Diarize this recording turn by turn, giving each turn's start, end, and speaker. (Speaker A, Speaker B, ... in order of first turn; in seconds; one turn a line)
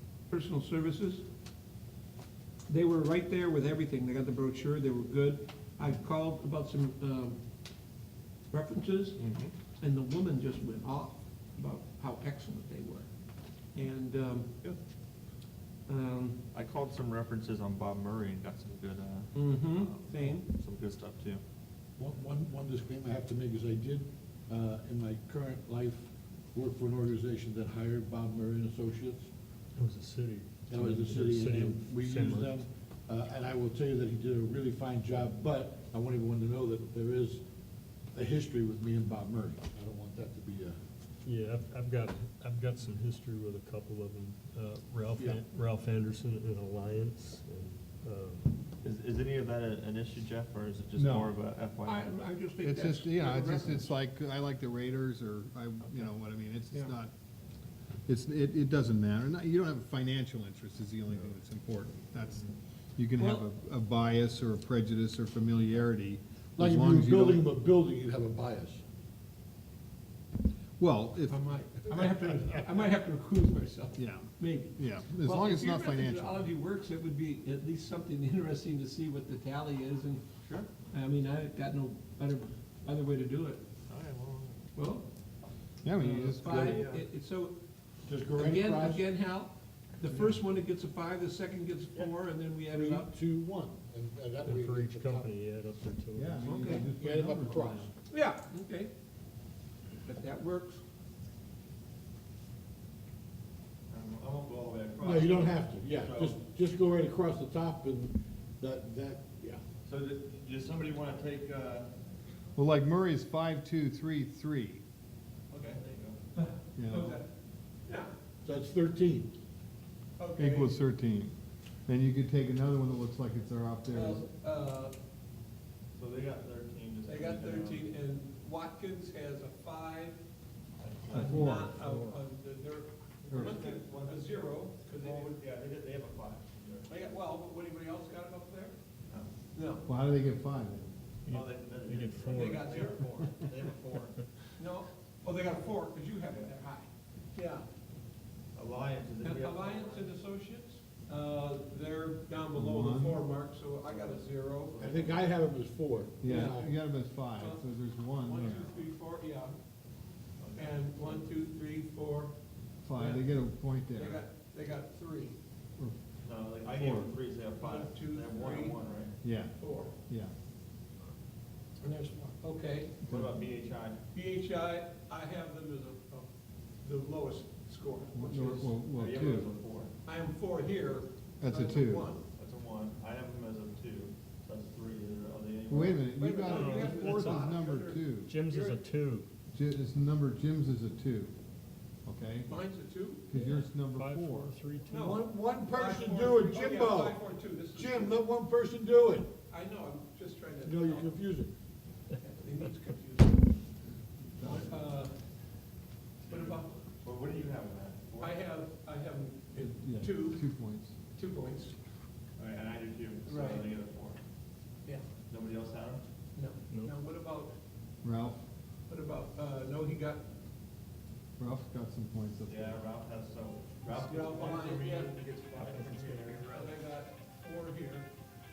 Speaker A: 0.3-1.2
Speaker A: 2.7-7.4
Speaker A: 8.5-9.2
Speaker B: 9.2-9.5
Speaker A: 9.8-13.1
Speaker A: 13.7-14.5
Speaker A: 15.9-16.4
Speaker B: 16.5-21.4
Speaker A: 19.3-20.4
Speaker C: 22.0-29.3
Speaker D: 29.8-32.6
Speaker C: 30.7-37.4
Speaker C: 38.1-40.8
Speaker D: 41.2-48.5
Speaker C: 45.1-45.4
Speaker B: 48.8-52.3
Speaker E: 51.0-51.3
Speaker A: 51.8-53.9
Speaker E: 52.6-57.1
Speaker E: 58.0-67.5
Speaker A: 63.2-63.5
Speaker C: 66.6-68.8
Speaker E: 70.8-72.1
Speaker A: 71.3-80.2
Speaker E: 74.0-76.5
Speaker B: 80.4-80.7
Speaker A: 80.9-83.6
Speaker B: 83.9-84.6
Speaker A: 84.7-85.0
Speaker E: 85.8-86.9
Speaker A: 86.0-87.6
Speaker B: 86.4-87.0
Speaker C: 88.0-89.1
Speaker A: 88.3-93.1
Speaker C: 92.7-95.3
Speaker D: 94.4-96.9
Speaker E: 96.1-97.9
Speaker A: 96.4-96.9
Speaker C: 96.8-97.9
Speaker A: 98.1-98.9
Speaker A: 100.0-100.8
Speaker B: 103.9-106.4
Speaker C: 105.0-109.6
Speaker B: 109.8-111.9
Speaker E: 112.5-114.8
Speaker B: 115.5-116.2
Speaker A: 116.3-117.3
Speaker E: 116.8-117.2
Speaker A: 117.8-118.1
Speaker C: 118.4-119.3
Speaker A: 120.2-120.8
Speaker E: 120.4-121.3
Speaker E: 121.9-124.2
Speaker A: 123.9-125.0
Speaker B: 125.9-127.9
Speaker A: 127.0-130.2
Speaker B: 130.8-131.6
Speaker E: 131.1-132.2
Speaker A: 131.1-135.4
Speaker B: 133.3-137.1
Speaker A: 136.9-138.8
Speaker A: 139.5-139.8
Speaker E: 139.8-140.9
Speaker D: 141.2-142.9
Speaker B: 141.3-144.2
Speaker A: 142.3-143.4
Speaker A: 144.6-147.7
Speaker B: 148.5-150.1
Speaker A: 149.2-154.8
Speaker E: 152.5-153.2
Speaker B: 153.9-155.3
Speaker C: 154.8-156.7
Speaker E: 156.2-158.9
Speaker A: 156.2-156.7
Speaker A: 157.4-157.6
Speaker A: 158.2-159.5
Speaker B: 160.4-161.2
Speaker A: 160.6-162.3
Speaker E: 162.8-164.2
Speaker A: 162.9-163.3
Speaker A: 163.9-165.4
Speaker B: 166.2-169.2
Speaker E: 166.7-167.1
Speaker A: 167.6-168.8
Speaker E: 169.2-169.5
Speaker A: 169.6-169.9
Speaker E: 170.1-170.3
Speaker A: 171.8-172.9
Speaker B: 173.0-174.0
Speaker E: 173.1-173.3
Speaker A: 174.1-176.3
Speaker A: 176.8-178.8
Speaker E: 178.1-179.5
Speaker B: 178.9-179.9
Speaker A: 180.0-182.2
Speaker E: 181.4-182.1
Speaker B: 182.3-186.1
Speaker E: 185.7-188.3
Speaker A: 186.2-188.8
Speaker D: 186.5-187.5
Speaker D: 188.3-189.3
Speaker E: 189.5-191.3
Speaker E: 192.1-192.5
Speaker A: 192.5-193.3
Speaker E: 193.3-194.6
Speaker D: 193.3-195.1
Speaker A: 194.9-198.2
Speaker C: 194.9-199.3
Speaker A: 199.5-201.2
Speaker C: 200.6-201.5
Speaker A: 202.1-203.5
Speaker E: 204.4-204.7
Speaker A: 204.4-205.1
Speaker B: 206.2-208.4
Speaker A: 206.3-206.7
Speaker A: 208.2-210.4
Speaker E: 209.6-210.9
Speaker A: 211.1-211.8
Speaker B: 212.4-214.2
Speaker A: 213.2-213.7
Speaker B: 215.3-216.0
Speaker A: 216.3-217.5
Speaker E: 218.0-218.4
Speaker A: 218.9-220.2
Speaker E: 221.4-222.8
Speaker B: 222.5-226.6
Speaker A: 223.9-228.1
Speaker D: 225.6-226.4